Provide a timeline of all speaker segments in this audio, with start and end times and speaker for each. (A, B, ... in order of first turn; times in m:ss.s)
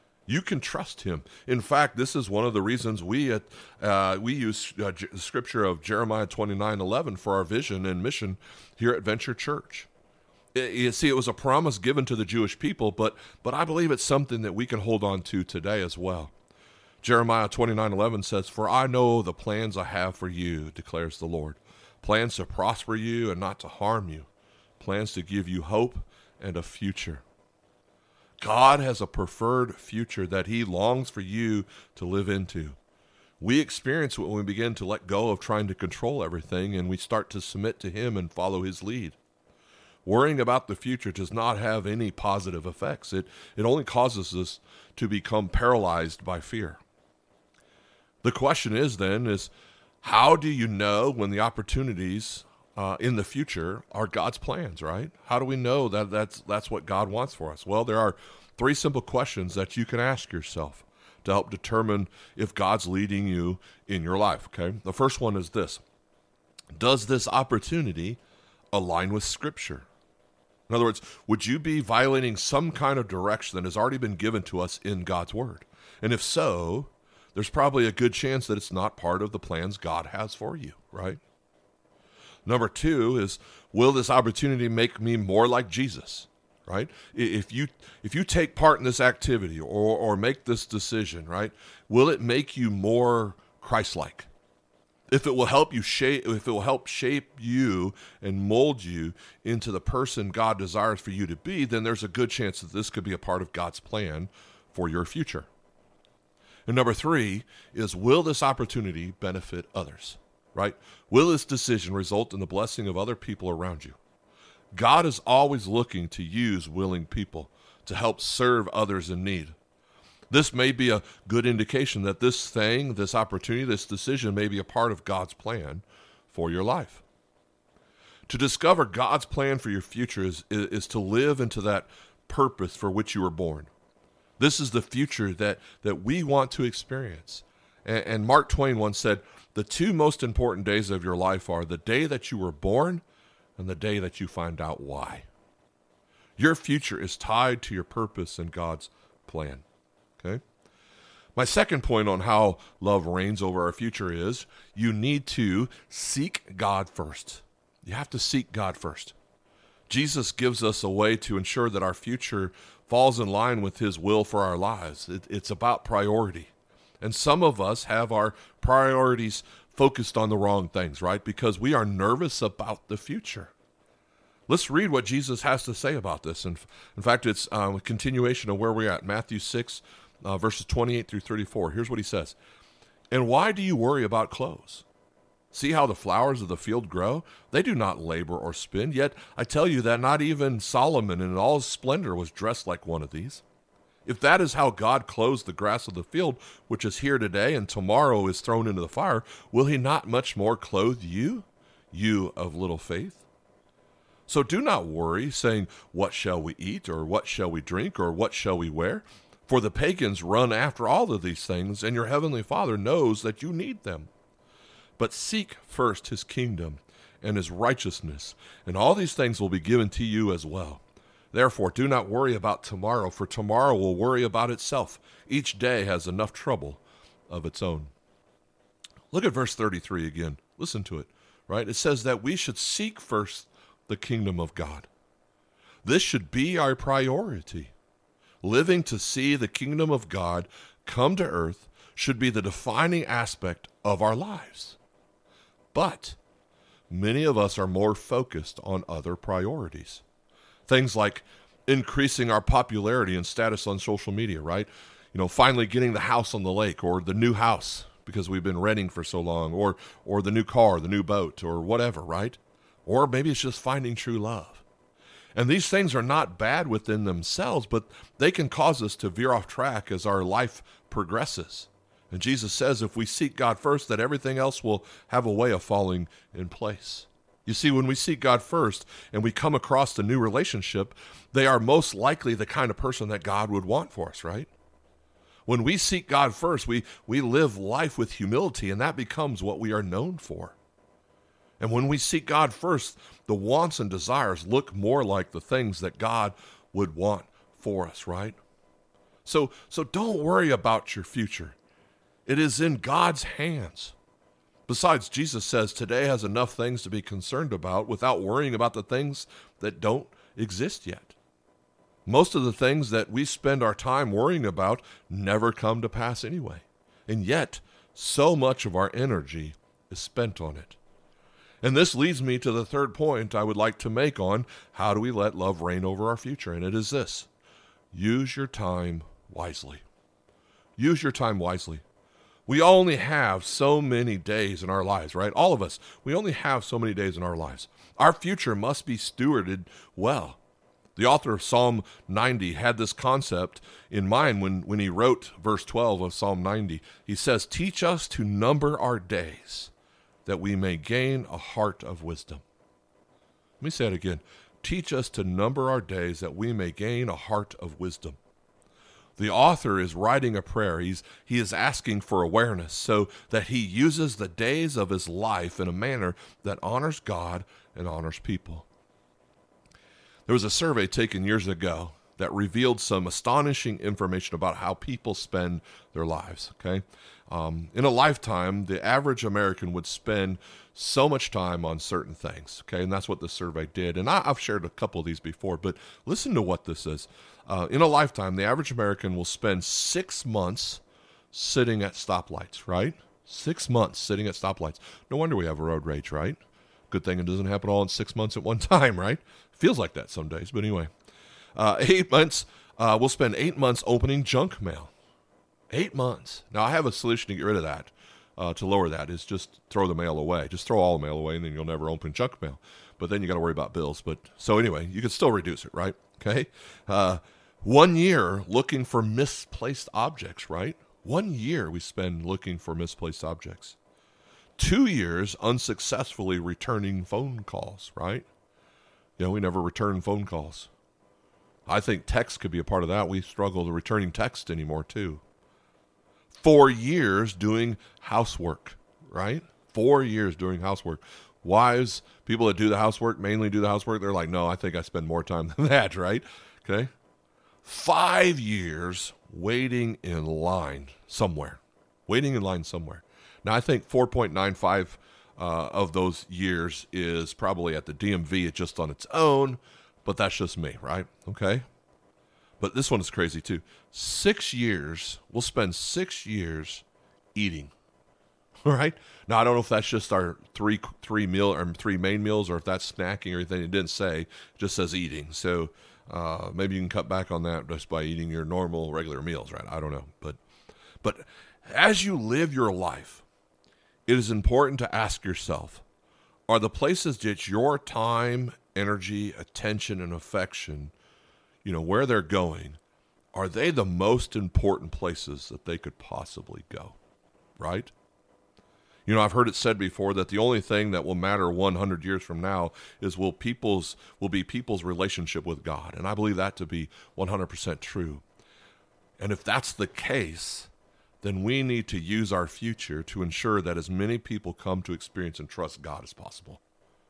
0:00.3-0:09.9 A
0:10.5-0:16.3 A
0:17.0-0:24.3 A
0:24.8-0:27.2 A
0:28.4-0:32.8 A
0:33.4-0:39.2 A
0:40.0-0:46.8 A
0:48.2-1:05.8 A
1:06.7-1:08.2 A
1:08.7-1:09.9 A
1:10.7-1:21.2 A
1:22.5-1:34.3 A
1:35.1-1:45.5 A
1:46.7-1:54.0 A
1:54.7-1:59.6 A
2:00.3-2:07.0 A
2:08.3-2:13.7 A
2:14.4-2:23.0 A
2:23.6-2:25.3 A
2:26.4-2:29.6 A
2:31.4-2:39.2 A
2:39.9-2:53.5 A
2:54.5-3:02.4 A
3:03.1-3:04.9 A
3:05.5-3:13.4 A
3:14.0-3:23.3 A
3:24.3-3:34.1 A
3:35.0-3:47.9 A
3:49.1-3:54.9 A
3:55.8-3:57.7 A
3:58.4-4:04.8 A
4:05.7-4:06.2 A
4:06.9-4:10.0 A
4:10.7-4:24.6 A
4:25.4-4:44.5 A
4:45.5-4:50.6 A
4:51.6-4:58.4 A
4:59.2-5:01.6 A
5:02.3-5:04.0 A
5:04.7-5:11.2 A
5:12.1-5:20.8 A
5:21.6-5:27.3 A
5:27.9-5:29.8 A
5:30.8-5:31.8 A
5:32.5-5:40.4 A
5:41.0-5:49.7 A
5:50.2-5:52.4 A
5:53.6-5:58.2 A
5:59.2-6:08.7 A
6:10.3-6:40.9 A
6:41.6-6:44.9 A
6:45.7-7:03.8 A
7:04.6-7:08.3 A
7:09.2-7:10.7 A
7:11.7-7:15.2 A
7:16.3-7:26.9 A
7:27.6-7:41.6 A
7:42.6-7:47.7 A
7:48.6-8:00.4 A
8:01.0-8:03.2 A
8:04.1-8:05.8 A
8:06.5-8:10.9 A
8:11.6-8:12.8 A
8:13.3-8:17.0 A
8:17.6-8:17.9 A
8:19.1-8:28.2 A
8:29.2-8:30.7 A
8:31.2-8:36.6 A